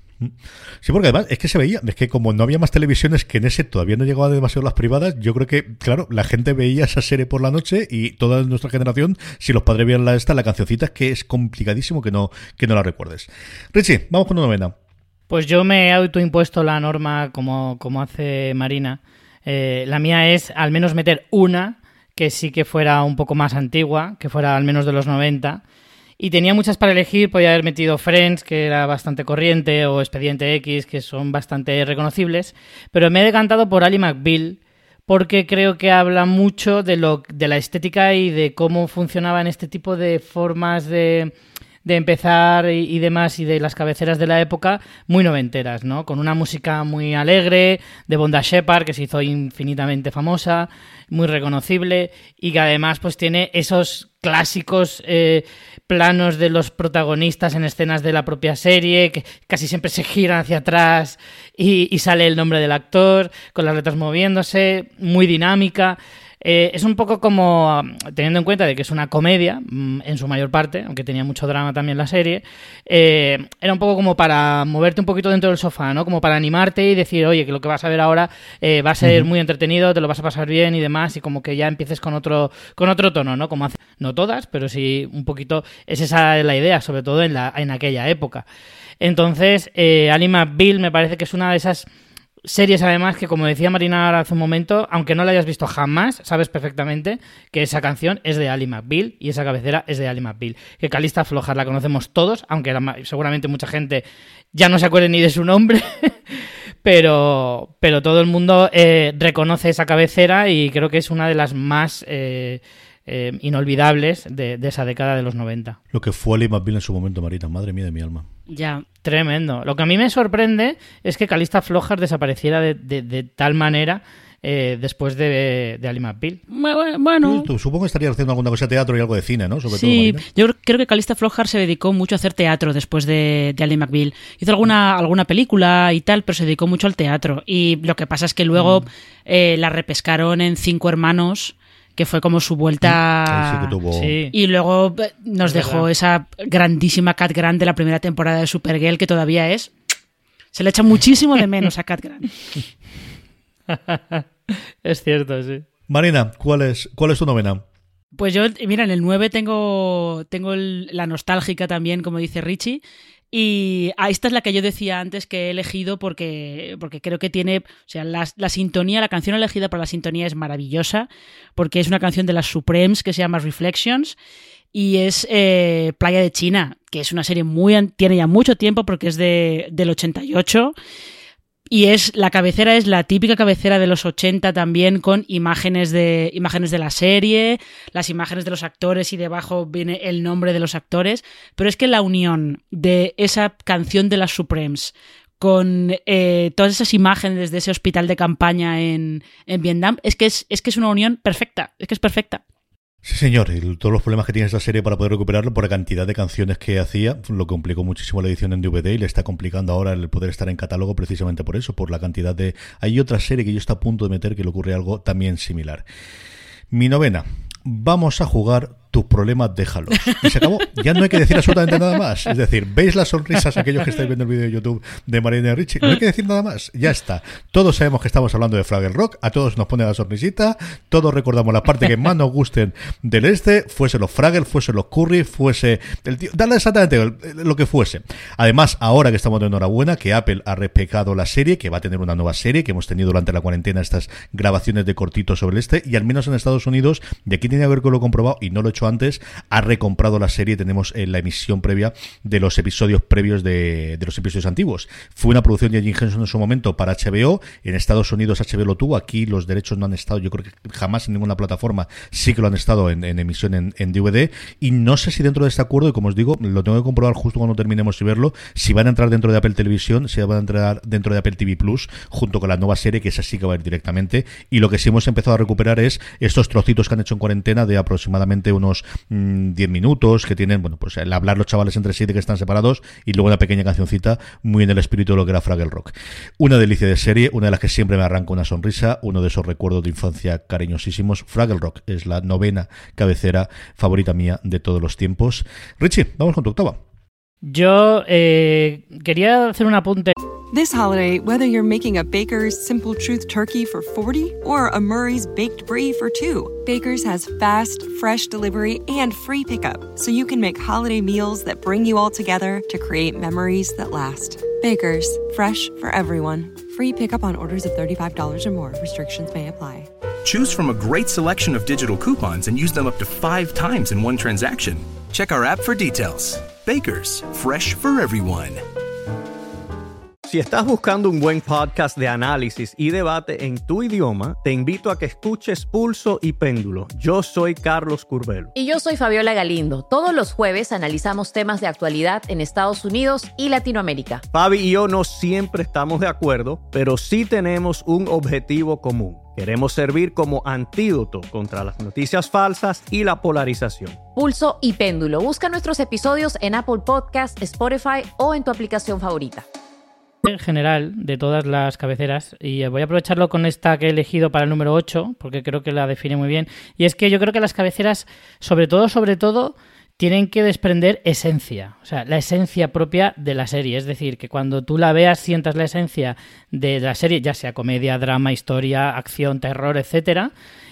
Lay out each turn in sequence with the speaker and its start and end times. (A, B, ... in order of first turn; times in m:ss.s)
0:00.2-0:14.7 A
0:15.3-0:25.6 B
0:26.2-0:41.3 B
0:41.8-1:28.4 B
1:29.0-1:31.9 B
1:32.4-1:55.8 B
1:55.9-1:58.3 A
1:58.5-1:58.8 C
1:59.0-2:06.4 B
2:06.5-2:07.5 C
2:07.2-2:10.2 A
2:09.7-2:23.7 C
2:18.5-2:18.8 B
2:22.8-2:24.2 A
2:23.9-2:24.3 B
2:24.3-2:29.7 C
2:25.4-2:25.8 B
2:30.5-2:32.3 C
2:33.7-2:35.6 B
2:35.9-2:37.6 A
2:38.2-2:54.1 C
2:54.7-3:00.7 C
3:01.7-3:22.4 C
3:23.0-3:35.8 A
3:36.7-4:56.8 A
4:57.4-5:00.1 B
5:00.5-5:19.9 D
5:20.2-5:28.6 E
5:30.3-5:38.5 F
5:38.5-5:44.2 G
5:44.3-5:54.0 F
5:54.1-5:59.4 G
6:00.2-6:20.3 B